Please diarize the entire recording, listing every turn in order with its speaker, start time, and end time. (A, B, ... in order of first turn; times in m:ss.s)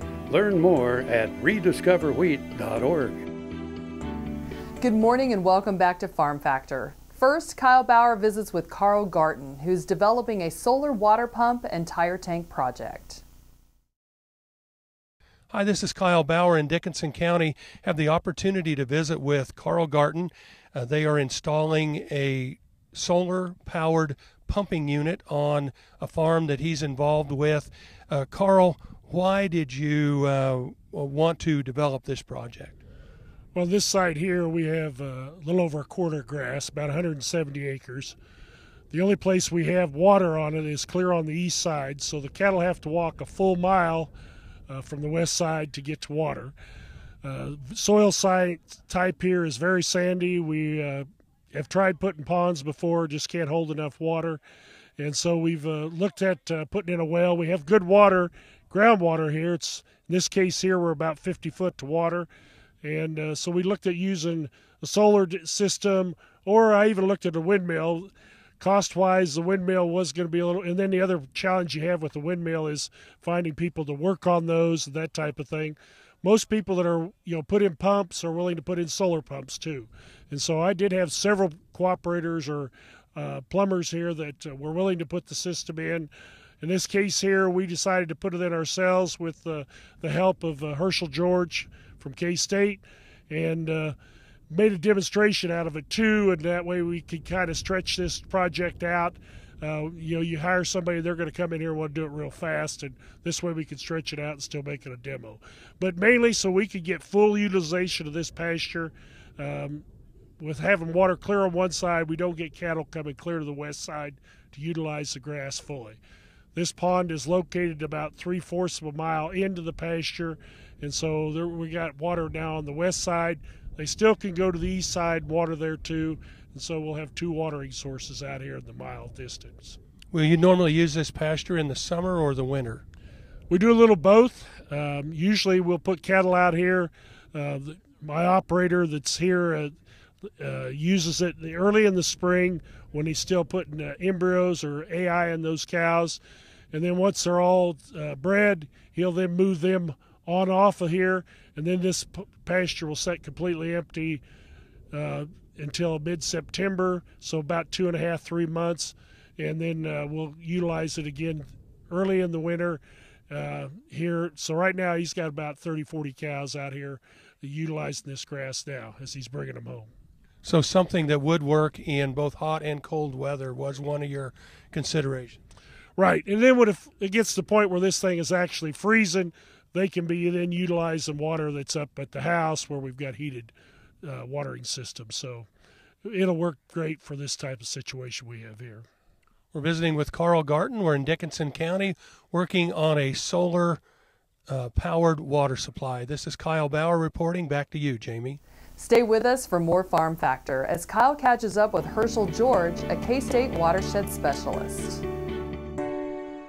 0:00.3-0:03.2 A
0:04.8-0:13.2 B
0:15.5-0:32.8 C
0:33.5-0:38.2 D
0:38.9-0:44.1 D
0:44.7-0:46.5 D
0:47.2-0:54.4 D
0:55.0-1:02.3 D
1:02.8-1:26.1 D
1:26.6-1:34.0 D
1:34.5-1:49.8 D
1:50.4-1:56.0 D
1:56.5-2:09.8 D
2:10.1-2:12.8 C
2:13.5-2:19.7 D
2:20.4-2:26.2 D
2:26.7-2:34.2 D
2:34.9-2:49.9 D
2:50.4-2:55.4 C
2:56.0-3:05.5 D
3:06.0-3:08.8 D
3:09.5-3:13.8 C
3:14.5-3:18.4 C
3:18.8-3:25.0 B